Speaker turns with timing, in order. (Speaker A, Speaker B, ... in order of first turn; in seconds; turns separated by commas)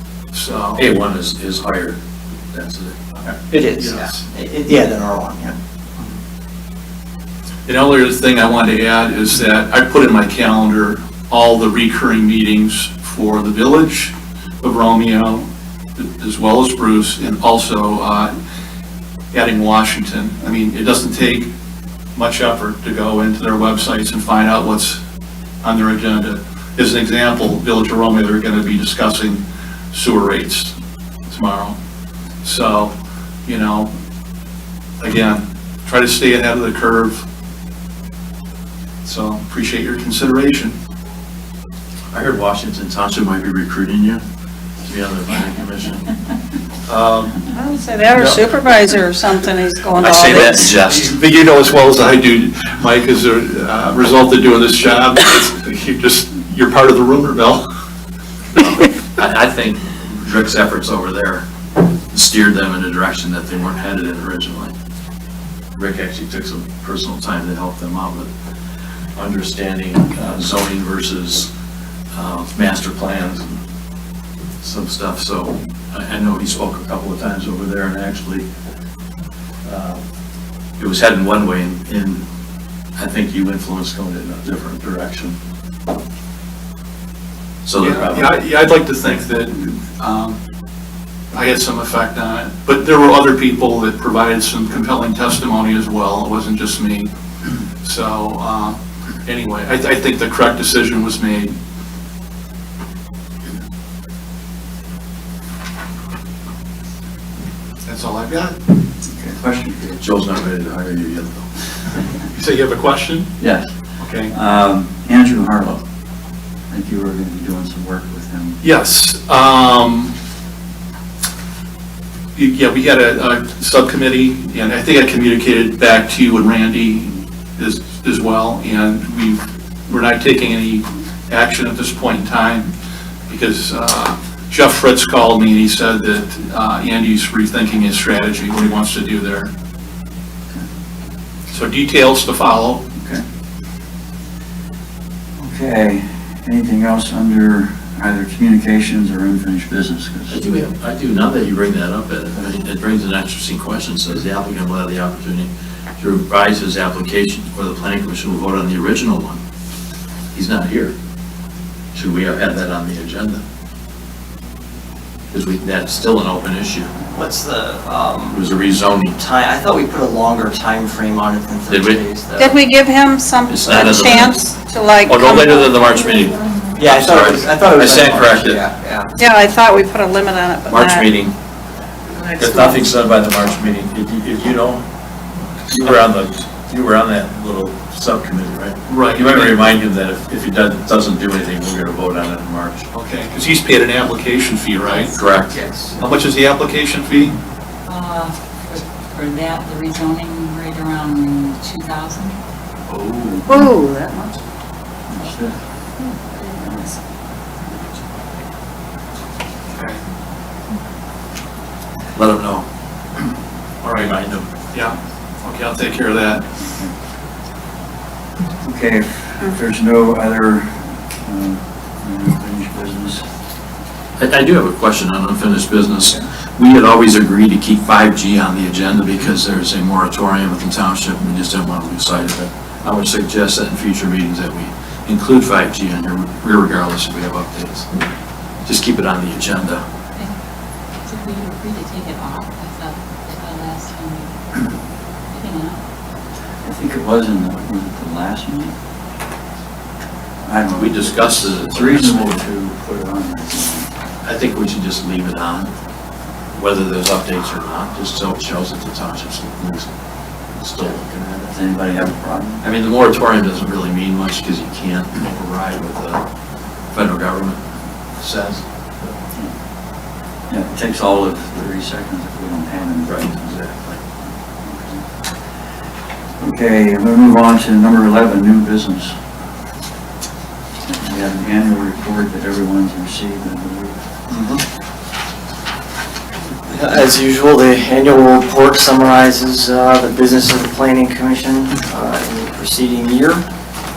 Speaker A: 0.3-0.8, Speaker B: 0.8-2.0, Speaker B: 2.5-3.2, Speaker A: 3.2-4.2, Speaker C: 3.5-5.5, Speaker A: 7.7-18.3, Speaker A: 19.3-21.5, Speaker A: 22.1-25.0, Speaker A: 25.6-30.7, Speaker A: 31.3-31.8, Speaker A: 32.4-32.9, Speaker A: 33.5-33.9, Speaker A: 35.0-37.2, Speaker A: 39.0-40.8, Speaker B: 42.1-44.2, Speaker B: 44.8-46.1, Speaker A: 46.9-47.4, Speaker D: 47.5-50.7, Speaker A: 48.1-48.5, Speaker B: 50.0-51.2, Speaker A: 50.9-57.6, Speaker B: 58.6-61.5, Speaker B: 62.1-64.7, Speaker B: 65.8-68.3, Speaker B: 69.2-71.5, Speaker B: 72.1-73.6, Speaker B: 74.6-78.5, Speaker B: 79.7-80.0, Speaker B: 80.8-82.3, Speaker B: 83.0-85.4, Speaker B: 87.7-88.3, Speaker A: 87.8-90.4, Speaker A: 91.3-97.1, Speaker A: 97.8-101.5, Speaker A: 107.8-108.6, Speaker E: 109.1-110.0, Speaker B: 110.0-111.5, Speaker A: 112.3-113.3, Speaker E: 113.4-113.7, Speaker A: 114.0-114.3, Speaker E: 114.3-115.8, Speaker E: 116.7-118.6, Speaker A: 118.6-120.1, Speaker A: 122.3-132.7, Speaker A: 133.3-139.5, Speaker A: 141.5-142.8, Speaker E: 143.0-143.2, Speaker E: 145.4-150.4, Speaker B: 150.3-159.4, Speaker B: 160.3-160.9, Speaker B: 161.9-163.4, Speaker B: 165.3-166.9, Speaker C: 167.1-168.4, Speaker B: 168.3-169.2, Speaker C: 169.2-172.6, Speaker B: 171.7-172.0, Speaker D: 172.4-175.9, Speaker B: 173.5-174.4, Speaker B: 175.1-178.7, Speaker C: 176.8-179.1, Speaker D: 179.2-181.2, Speaker B: 180.7-181.3, Speaker B: 182.4-184.8, Speaker B: 185.7-192.9, Speaker A: 188.9-189.6, Speaker A: 192.9-195.2, Speaker B: 195.1-195.6, Speaker C: 195.5-195.9, Speaker A: 196.0-197.4, Speaker F: 197.9-202.4, Speaker A: 202.9-203.5, Speaker D: 203.5-204.3, Speaker E: 205.1-205.6, Speaker D: 206.0-206.9, Speaker A: 209.7-210.0, Speaker B: 212.2-212.7, Speaker A: 213.8-214.1, Speaker B: 213.9-214.5, Speaker A: 214.7-216.4, Speaker E: 218.6-223.2, Speaker B: 224.2-237.9, Speaker B: 238.7-239.8, Speaker F: 241.0-244.7, Speaker F: 245.3-245.8, Speaker E: 246.6-248.7, Speaker E: 250.4-253.9, Speaker B: 250.8-252.4, Speaker B: 254.2-255.7, Speaker B: 256.5-259.9, Speaker B: 260.5-261.6, Speaker E: 261.5-262.6, Speaker B: 262.6-266.2, Speaker B: 266.9-267.6, Speaker B: 268.2-268.6, Speaker E: 270.5-273.3, Speaker B: 273.1-274.0, Speaker E: 274.6-275.0, Speaker E: 276.4-279.2, Speaker E: 281.0-284.0, Speaker C: 284.3-284.6, Speaker C: 286.7-293.4